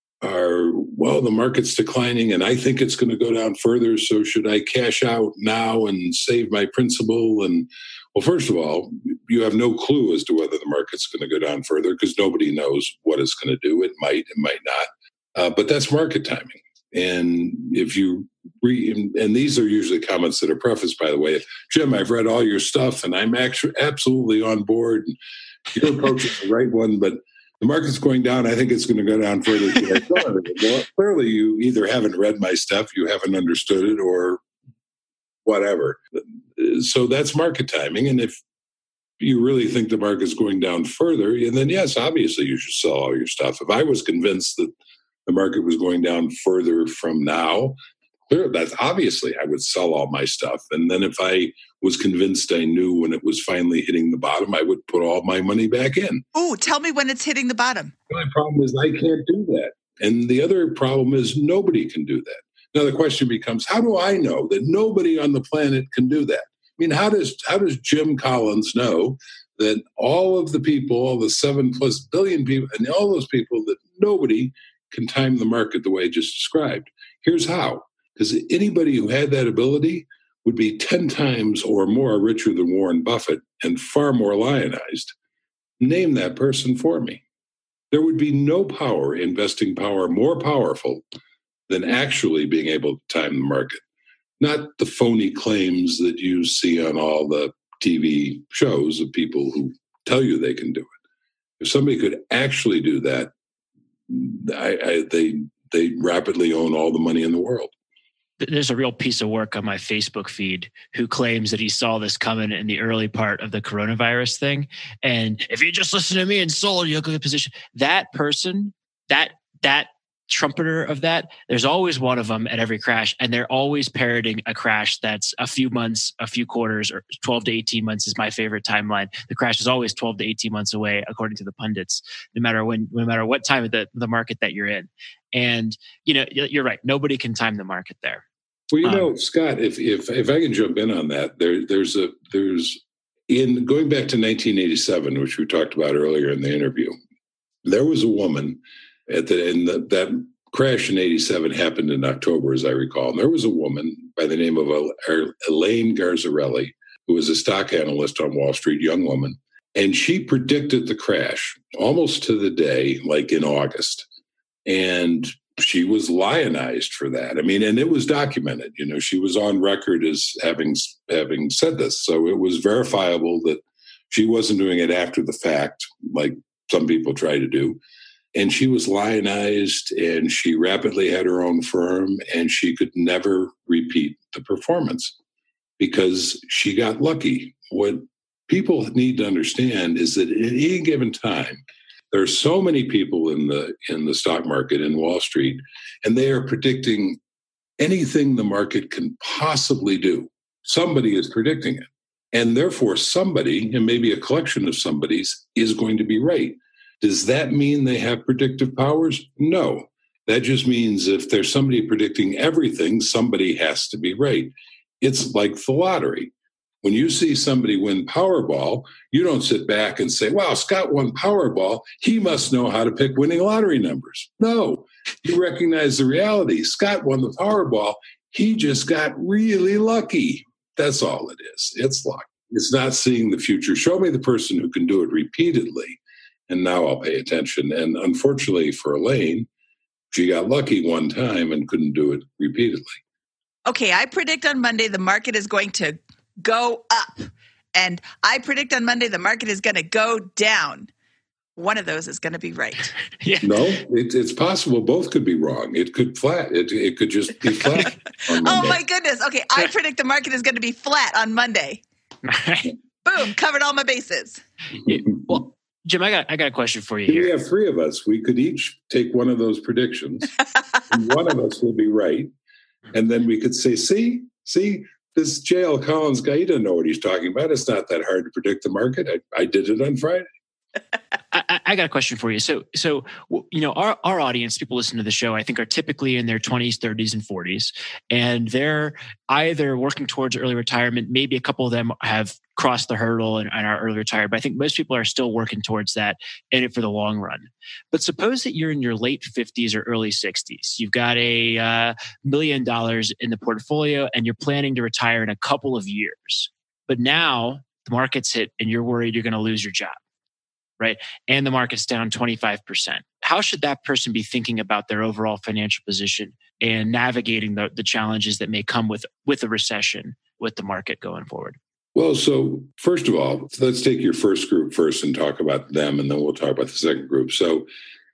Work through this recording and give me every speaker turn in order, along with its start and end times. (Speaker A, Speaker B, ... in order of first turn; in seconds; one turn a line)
Speaker A: 0.2-25.2
Speaker A: 25.8-34.4
Speaker A: 35.5-36.0
Speaker A: 36.6-38.4
Speaker A: 39.2-44.7
Speaker A: 45.3-47.8
Speaker A: 48.3-56.2
Speaker B: 56.4-57.9
Speaker A: 58.1-85.1
Speaker A: 85.8-87.2
Speaker A: 87.9-91.0
Speaker A: 91.7-93.8
Speaker A: 94.4-100.9
Speaker A: 101.6-103.3
Speaker A: 104.1-107.7
Speaker C: 108.4-138.2
Speaker A: 138.7-147.0
Speaker A: 147.6-164.1
Speaker A: 164.7-177.8
Speaker A: 178.3-185.1
Speaker A: 185.8-197.2
Speaker A: 197.8-239.5
Speaker A: 240.1-243.0
Speaker B: 243.7-250.9
Speaker B: 251.6-252.9
Speaker C: 253.2-253.6
Speaker A: 253.4-258.8
Speaker B: 258.4-261.8
Speaker C: 262.3-262.7
Speaker B: 263.0-264.4
Speaker C: 264.9-267.3
Speaker A: 267.1-270.3
Speaker A: 270.9-272.3
Speaker A: 272.9-280.3
Speaker C: 281.3-310.0
Speaker C: 310.8-321.6
Speaker A: 321.9-327.7